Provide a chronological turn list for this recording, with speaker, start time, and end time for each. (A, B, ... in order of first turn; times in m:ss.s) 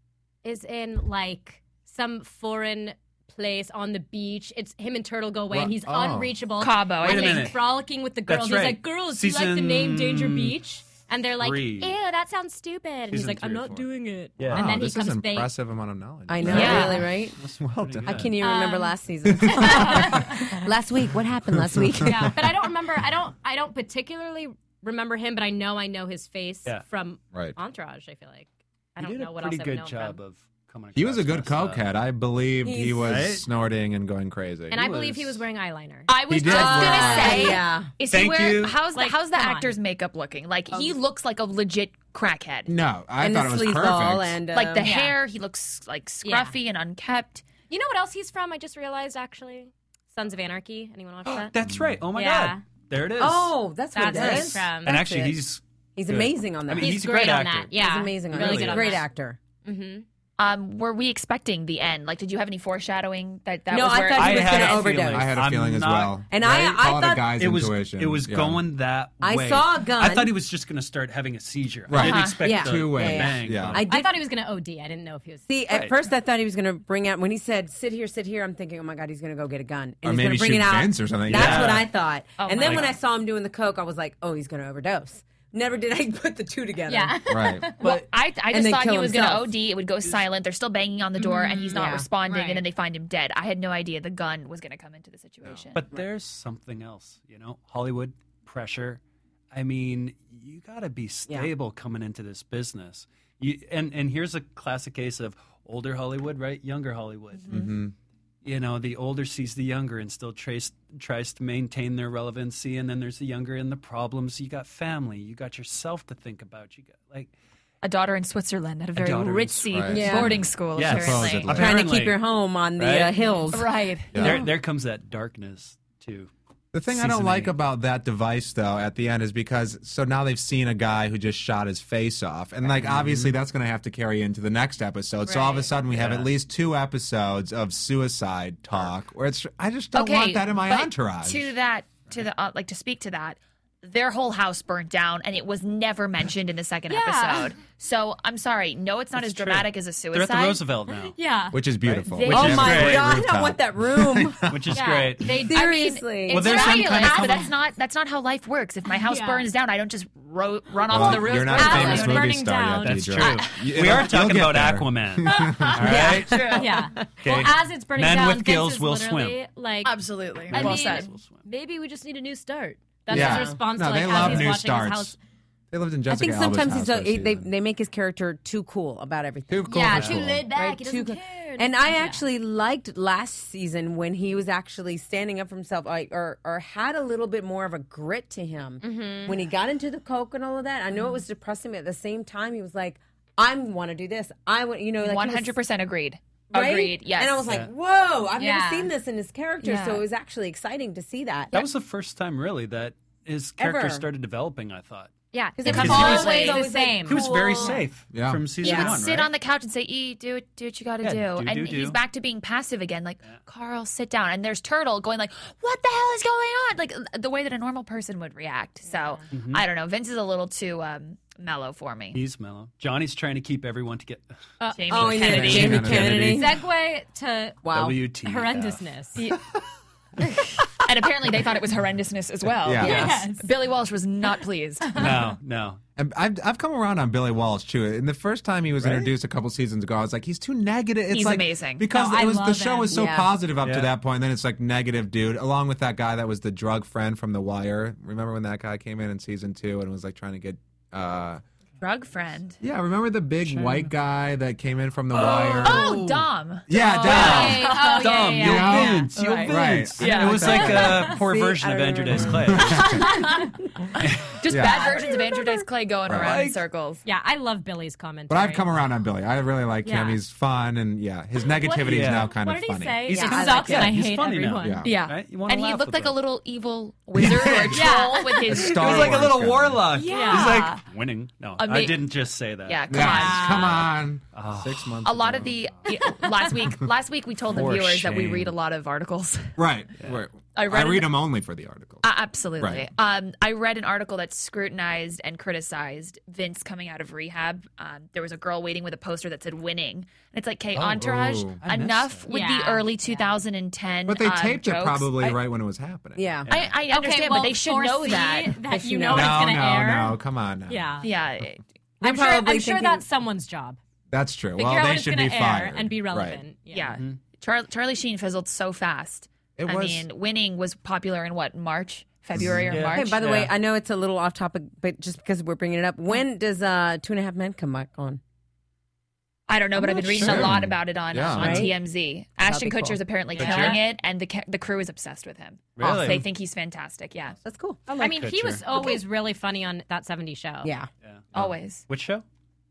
0:00.4-0:15.5 A
0:05.5-0:06.4 B
0:06.6-0:07.6 C
0:07.0-0:07.6 D
0:08.3-0:10.6 D
0:11.4-0:11.9 D
0:13.1-0:14.7 D
0:14.4-0:18.3 B
0:16.3-0:17.4 E
0:16.4-0:18.3 D
0:16.4-0:17.1 C
0:16.6-0:16.9 A
0:18.0-0:22.6 E
0:18.4-0:18.9 A
0:19.3-0:19.6 B
0:19.5-0:20.4 A
0:21.6-0:22.3 B
0:22.0-0:30.2 A
0:29.0-0:31.8 D
0:30.9-0:34.9 B
0:32.6-0:33.1 E
0:33.0-0:33.4 D
0:34.7-0:37.6 A
0:34.7-0:35.4 D
0:36.1-0:42.7 C
0:36.3-0:37.5 B
0:36.3-0:37.9 E
0:38.1-0:38.8 D
0:38.9-0:39.7 A
0:42.7-0:44.4 B
0:43.2-0:44.9 E
0:44.5-0:47.4 C
0:44.8-0:45.1 A
0:46.2-0:46.6 A
0:47.7-0:51.5 A
0:51.2-0:53.6 D
0:52.1-0:52.6 A
0:53.2-0:55.4 E
0:53.9-0:55.0 A
0:54.1-0:57.7 D
0:56.0-0:57.0 E
0:56.8-0:59.1 A
0:57.7-0:59.4 E
0:58.3-0:59.0 D
0:59.6-1:00.0 A
1:00.4-1:05.0 C
1:03.7-1:05.3 E
1:04.1-1:06.8 D
1:05.0-1:08.6 B
1:06.3-1:07.3 E
1:07.3-1:13.8 D
1:09.2-1:10.3 E
1:11.9-1:13.8 B
1:12.0-1:12.4 C
1:12.4-1:14.2 E
1:13.9-1:15.4 A
1:15.5-1:27.2 E
1:15.7-1:16.0 D
1:20.0-1:21.8 B
1:21.3-1:21.9 D
1:22.4-1:22.9 C
1:22.6-1:22.9 D
1:26.9-1:27.9 A
1:27.2-1:27.7 B
1:27.8-1:35.8 C
1:27.8-1:29.5 E
1:31.2-1:32.6 A
1:31.6-1:32.0 E
1:35.7-1:39.0 D
1:39.5-1:47.6 D
1:47.5-1:47.9 B
1:48.4-1:57.3 D
1:57.8-2:01.5 C
1:59.0-2:02.2 D
1:59.7-2:01.8 B
1:59.9-2:00.3 E
2:01.5-2:04.5 E
2:02.8-2:03.2 D
2:03.5-2:04.2 C
2:04.1-2:04.4 B
2:04.1-2:06.3 D
2:06.7-2:21.5 B
2:06.9-2:07.5 D
2:12.7-2:13.3 D
2:15.3-2:15.6 A
2:15.9-2:16.3 D
2:19.9-2:30.6 C
2:26.9-2:27.5 A
2:29.2-2:31.1 D
2:31.1-2:31.6 A
2:31.5-2:34.7 B
2:31.8-2:33.2 D
2:32.2-2:32.8 C
2:32.3-2:34.5 E
2:34.5-2:35.4 D
2:34.7-2:37.5 A
2:35.4-2:36.6 E
2:35.5-2:42.3 C
2:36.3-2:37.4 D
2:38.9-2:39.5 A
2:40.9-2:46.1 B
2:41.0-2:43.2 A
2:42.8-2:46.6 D
2:43.2-2:43.4 C
2:45.4-2:46.8 C
2:46.5-2:55.2 A
2:47.2-2:49.4 D
2:49.8-2:51.1 C
2:50.5-2:51.4 D
2:53.1-2:53.6 E
2:53.1-2:55.1 B
2:54.1-2:54.5 E
2:55.7-2:57.5 B
2:56.1-2:59.9 E
2:59.5-3:00.5 B
2:59.6-3:02.2 A
2:59.9-3:00.2 D
3:00.5-3:15.5 E
3:08.8-3:09.4 A
3:15.0-3:17.5 C
3:16.5-3:21.6 E
3:18.4-3:18.9 A
3:19.6-3:20.0 C
3:21.5-3:25.1 D
3:23.6-3:24.0 E
3:25.3-3:27.8 A
3:25.6-3:27.8 E
3:25.6-3:26.7 C
3:25.6-3:29.3 D
3:28.1-3:28.5 B
3:28.6-3:29.0 E
3:28.6-3:42.2 C
3:31.0-3:32.0 D
3:38.9-3:39.2 A
3:39.3-3:39.6 D
3:42.1-3:44.4 D
3:44.6-3:45.2 A
3:44.7-3:46.0 C
3:44.9-3:46.6 E
3:45.0-3:46.6 B
3:46.0-3:47.6 A
3:47.6-3:48.0 E
3:47.7-3:48.8 D
3:48.2-3:49.2 A
3:50.8-3:55.2 C
3:52.6-3:53.1 B
3:52.8-3:53.5 A
3:52.8-3:53.1 E
3:54.8-3:55.1 A
3:55.0-3:55.8 D
3:56.0-4:11.4 B
3:58.8-3:59.1 D
4:01.1-4:01.9 C
4:01.9-4:03.0 A
4:02.9-4:03.3 E
4:03.6-4:03.9 D
4:11.8-4:12.6 C
4:12.6-4:16.0 B
4:15.1-4:16.2 D
4:15.6-4:20.9 C
4:16.7-4:17.7 B
4:17.0-4:18.9 A
4:17.1-4:23.1 D
4:18.4-4:21.0 B
4:20.8-4:22.6 E
4:22.2-4:23.0 B
4:23.0-4:23.5 A
4:23.0-4:23.3 C
4:24.0-4:24.3 D
4:24.4-4:27.0 C
4:24.5-4:24.9 B
4:24.6-4:25.1 A
4:26.1-4:26.3 B
4:26.1-4:26.6 D
4:27.0-4:28.6 A
4:28.3-4:33.2 B
4:29.8-4:30.2 A
4:31.6-4:34.8 A
4:31.8-4:32.3 D
4:33.0-4:36.2 D
4:33.1-4:34.0 E
4:34.6-4:34.9 B
4:34.8-4:39.2 C
4:37.2-4:37.9 D
4:37.7-4:38.5 A
4:38.4-4:43.1 D
4:38.5-4:39.8 B
4:40.0-4:40.7 A
4:40.0-4:40.8 C
4:41.6-4:42.0 C
4:42.6-4:43.8 C
4:42.9-4:45.5 B
4:43.0-4:43.8 A
4:44.3-4:44.9 D
4:45.0-4:49.5 C
4:46.0-4:46.5 A
4:47.5-4:48.5 D
4:49.6-4:52.0 B
4:50.5-4:51.1 C
4:52.0-5:05.4 C
4:52.6-4:52.9 B
5:00.8-5:02.3 D
5:01.0-5:01.6 B
5:02.3-5:03.4 A
5:04.1-5:06.4 B
5:06.2-5:06.5 E
5:06.5-5:08.6 C
5:06.9-5:11.1 A
5:08.6-5:09.6 E
5:09.1-5:11.0 B
5:11.0-5:11.6 C
5:12.0-5:13.0 E
5:12.0-5:13.8 A
5:14.1-5:16.4 B
5:14.6-5:17.0 A
5:16.7-5:23.2 C
5:19.6-5:20.0 B
5:22.3-5:22.8 B
5:22.4-5:23.5 D
5:22.9-5:28.2 E
5:29.5-5:37.4 C
5:29.8-5:30.5 E
5:30.1-5:30.5 D
5:30.2-5:31.7 B
5:31.4-5:31.8 E
5:32.4-5:33.0 E
5:33.3-5:33.8 A
5:33.4-5:33.8 D
5:35.8-5:36.2 D
5:35.8-5:36.2 E
5:37.4-5:37.8 E
5:37.9-5:40.7 A
5:38.0-5:38.6 D
5:40.6-5:40.9 E
5:41.3-5:41.8 C
5:41.9-5:42.2 D